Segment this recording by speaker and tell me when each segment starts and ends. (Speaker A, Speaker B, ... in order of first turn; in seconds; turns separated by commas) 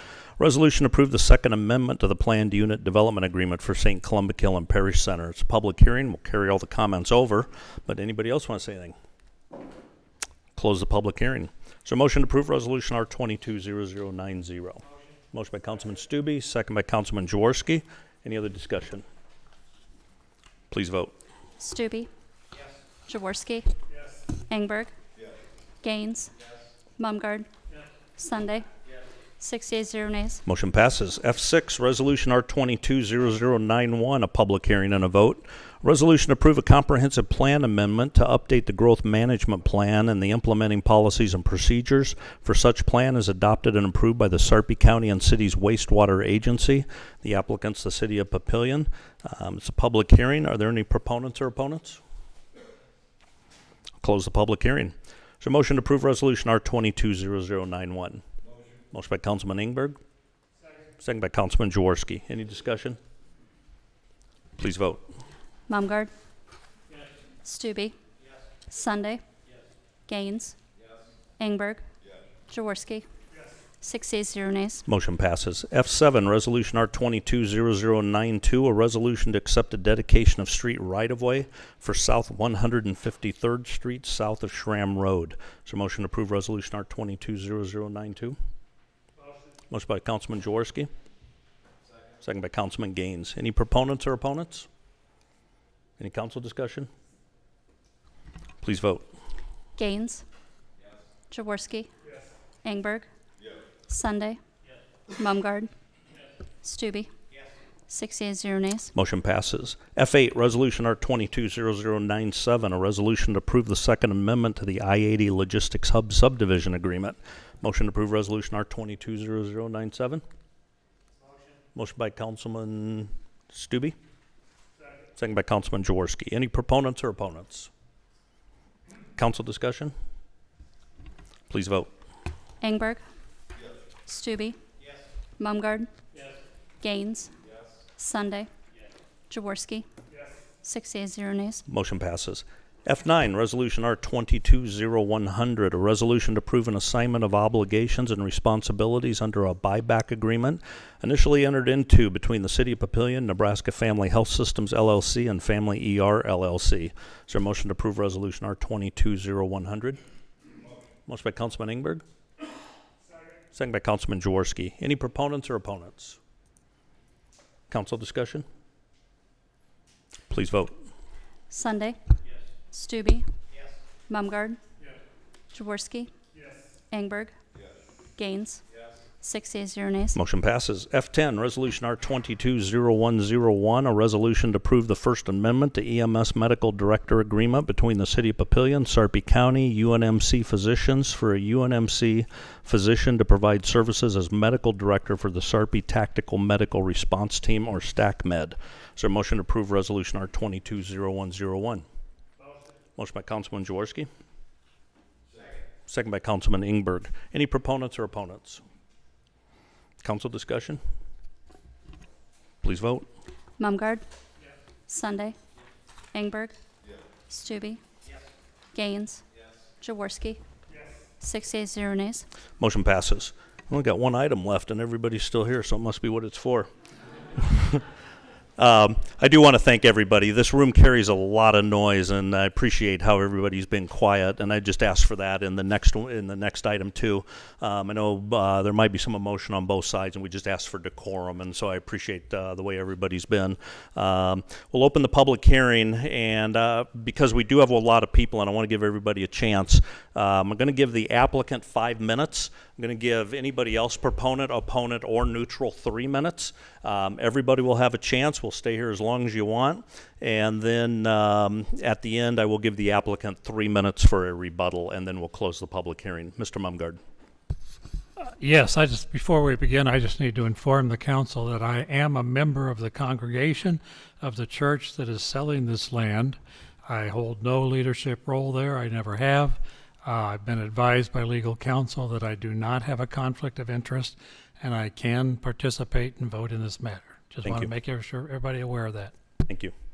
Speaker A: 0.4-8.9, Speaker A: 10.6-19.1, Speaker A: 20.7-21.1, Speaker B: 21.6-22.1, Speaker B: 23.1-23.7, Speaker B: 24.3-24.9, Speaker B: 25.8-26.3, Speaker B: 27.0-27.5, Speaker B: 28.2-28.7, Speaker B: 29.4-30.4, Speaker A: 30.5-52.0, Speaker A: 54.0-58.2, Speaker A: 58.9-60.0, Speaker A: 61.0-63.0, Speaker A: 64.6-65.0, Speaker B: 65.7-66.1, Speaker B: 67.4-68.0, Speaker B: 68.7-69.2, Speaker B: 70.1-70.6, Speaker B: 71.4-71.8, Speaker B: 72.5-73.1, Speaker B: 73.8-74.9, Speaker A: 74.9-88.4, Speaker A: 89.7-90.9, Speaker A: 92.2-94.7, Speaker A: 96.0-96.9, Speaker A: 98.6-99.1, Speaker B: 99.8-100.2, Speaker B: 101.3-101.9, Speaker B: 102.6-103.1, Speaker B: 103.9-104.4, Speaker B: 105.1-105.7, Speaker B: 106.6-107.1, Speaker B: 107.9-108.9, Speaker A: 109.0-120.2, Speaker A: 121.8-124.0, Speaker A: 125.2-127.7, Speaker A: 129.2-129.9, Speaker A: 131.5-131.9, Speaker B: 132.6-133.0, Speaker B: 134.1-134.6, Speaker B: 135.4-135.9, Speaker B: 136.8-137.3, Speaker B: 138.0-138.5, Speaker B: 139.3-139.9, Speaker B: 140.6-141.6, Speaker A: 141.7-160.0, Speaker A: 161.1-162.0, Speaker A: 163.5-166.2, Speaker A: 167.7-168.4, Speaker A: 170.3-170.7, Speaker B: 171.5-172.0, Speaker B: 172.7-173.3, Speaker B: 174.1-174.6, Speaker B: 175.5-176.1, Speaker B: 176.9-177.3, Speaker B: 178.2-178.6, Speaker B: 179.2-180.2, Speaker A: 180.2-201.8, Speaker A: 203.0-204.1, Speaker A: 205.9-208.6, Speaker A: 210.0-210.8, Speaker A: 212.6-213.1, Speaker B: 213.6-214.0, Speaker B: 214.9-215.4, Speaker B: 216.1-216.6, Speaker B: 217.3-217.8, Speaker B: 218.7-219.2, Speaker B: 219.8-220.4, Speaker B: 221.2-222.3, Speaker A: 222.6-226.7, Speaker A: 227.4-227.8, Speaker A: 228.6-267.0, Speaker C: 268.2-289.1, Speaker A: 287.4-287.7, Speaker A: 289.4-289.7